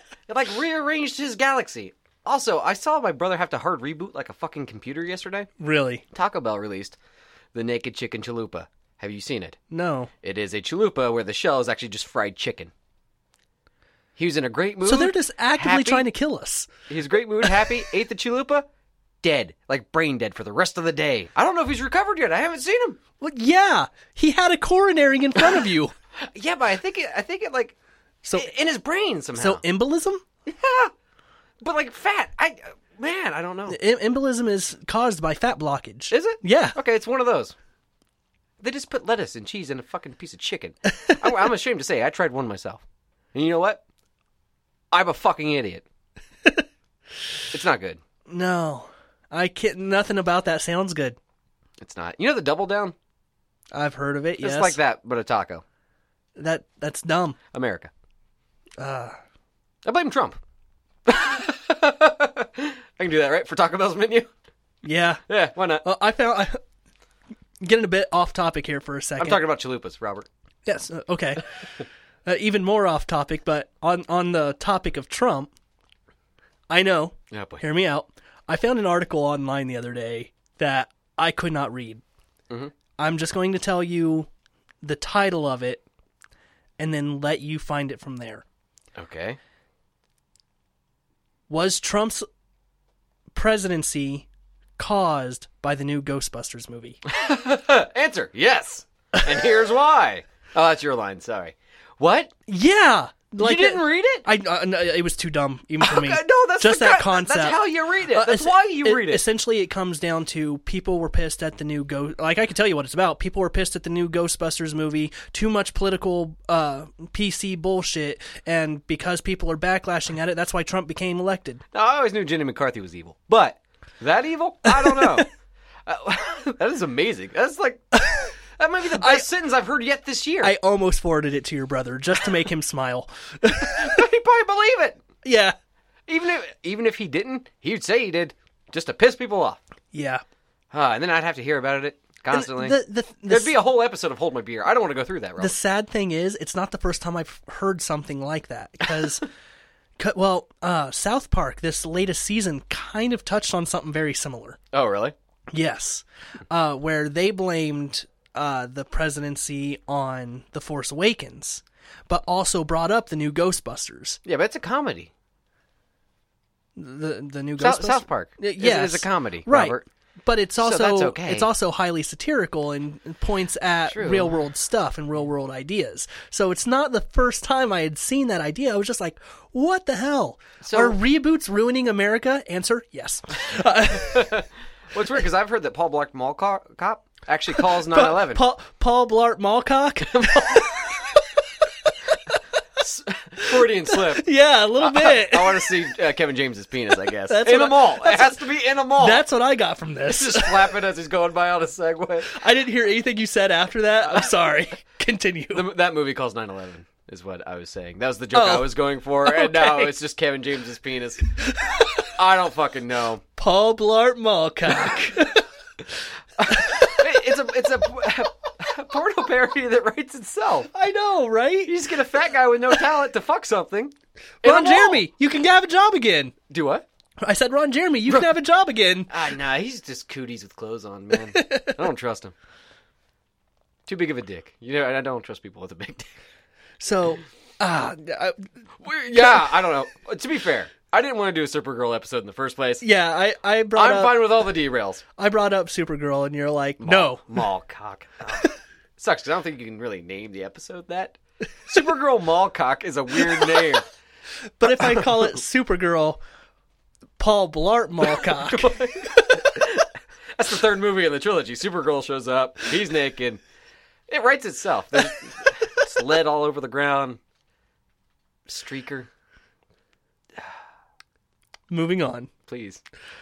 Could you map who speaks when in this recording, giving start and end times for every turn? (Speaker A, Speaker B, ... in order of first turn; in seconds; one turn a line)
Speaker A: 0.3-5.5
Speaker B: 5.6-6.0
Speaker A: 6.1-7.0
Speaker A: 7.5-9.6
Speaker B: 9.7-10.1
Speaker A: 10.2-12.7
Speaker A: 14.2-16.1
Speaker B: 14.8-16.7
Speaker A: 16.9-18.7
Speaker A: 19.2-23.0
Speaker B: 23.2-25.9
Speaker A: 26.1-27.7
Speaker B: 28.2-28.5
Speaker A: 28.3-29.6
Speaker B: 29.4-30.2
Speaker A: 30.4-30.9
Speaker A: 31.6-33.8
Speaker B: 33.7-36.8
Speaker A: 36.1-37.5
Speaker A: 38.6-43.8
Speaker A: 44.9-45.8
Speaker A: 47.5-48.0
Speaker B: 48.3-51.2
Speaker A: 51.8-52.9
Speaker B: 53.7-54.8
Speaker A: 54.4-55.6
Speaker B: 56.4-57.4
Speaker A: 57.5-57.9
Speaker B: 58.8-59.1
Speaker A: 59.8-60.4
Speaker A: 61.0-64.3
Speaker B: 64.8-65.2
Speaker A: 65.3-65.8
Speaker B: 65.8-66.6
Speaker B: 67.6-69.4
Speaker A: 69.2-70.3
Speaker B: 70.7-71.5
Speaker B: 72.2-75.5
Speaker B: 76.7-82.0
Speaker A: 77.3-77.6
Speaker B: 83.0-84.3
Speaker B: 84.8-85.8
Speaker B: 86.8-88.4
Speaker A: 88.9-89.4
Speaker B: 91.5-92.2
Speaker B: 93.3-97.0
Speaker A: 97.1-102.3
Speaker B: 102.5-121.6
Speaker A: 103.4-104.2
Speaker A: 105.8-109.2
Speaker A: 121.7-125.3
Speaker B: 124.7-125.2
Speaker A: 125.8-127.8
Speaker B: 127.9-128.3
Speaker A: 128.6-130.5
Speaker B: 128.9-129.2
Speaker B: 130.4-134.0
Speaker A: 133.5-135.0
Speaker B: 135.2-135.5
Speaker A: 136.1-139.6
Speaker B: 139.9-140.2
Speaker A: 140.7-142.8
Speaker B: 142.3-143.5
Speaker A: 143.3-145.6
Speaker B: 145.4-149.3
Speaker B: 150.0-154.6
Speaker A: 154.7-155.1
Speaker B: 155.5-164.2
Speaker A: 164.2-165.1
Speaker B: 166.8-184.4
Speaker A: 167.6-169.8
Speaker A: 170.6-171.5
Speaker A: 173.9-174.3
Speaker A: 180.6-181.0
Speaker A: 183.9-188.4
Speaker B: 187.5-191.3
Speaker A: 190.1-190.8
Speaker B: 191.8-192.4
Speaker A: 192.8-194.3
Speaker B: 193.4-195.7
Speaker A: 194.8-199.2
Speaker B: 197.2-198.4
Speaker B: 198.9-200.8
Speaker A: 200.1-202.3
Speaker B: 202.3-205.7
Speaker A: 205.5-211.2
Speaker B: 208.3-208.7
Speaker B: 209.2-209.9
Speaker B: 211.4-212.1
Speaker A: 212.1-213.2
Speaker B: 213.4-215.5
Speaker A: 214.7-215.1
Speaker A: 216.4-220.7
Speaker B: 216.4-217.2
Speaker B: 220.7-221.7
Speaker A: 221.7-225.0
Speaker B: 224.4-226.3
Speaker A: 226.5-226.8
Speaker B: 227.2-229.1
Speaker A: 229.1-232.3
Speaker B: 231.1-231.8
Speaker A: 233.8-236.1
Speaker B: 236.8-238.5
Speaker A: 238.8-242.8
Speaker B: 239.1-239.5
Speaker B: 242.8-244.3
Speaker A: 243.7-245.0
Speaker B: 245.2-247.4
Speaker A: 246.8-253.8
Speaker B: 253.3-253.6
Speaker B: 254.6-256.2
Speaker A: 254.8-255.1
Speaker B: 257.2-259.5
Speaker A: 258.0-263.4
Speaker A: 264.1-267.2
Speaker A: 268.5-269.1
Speaker B: 271.7-272.3
Speaker A: 272.5-272.8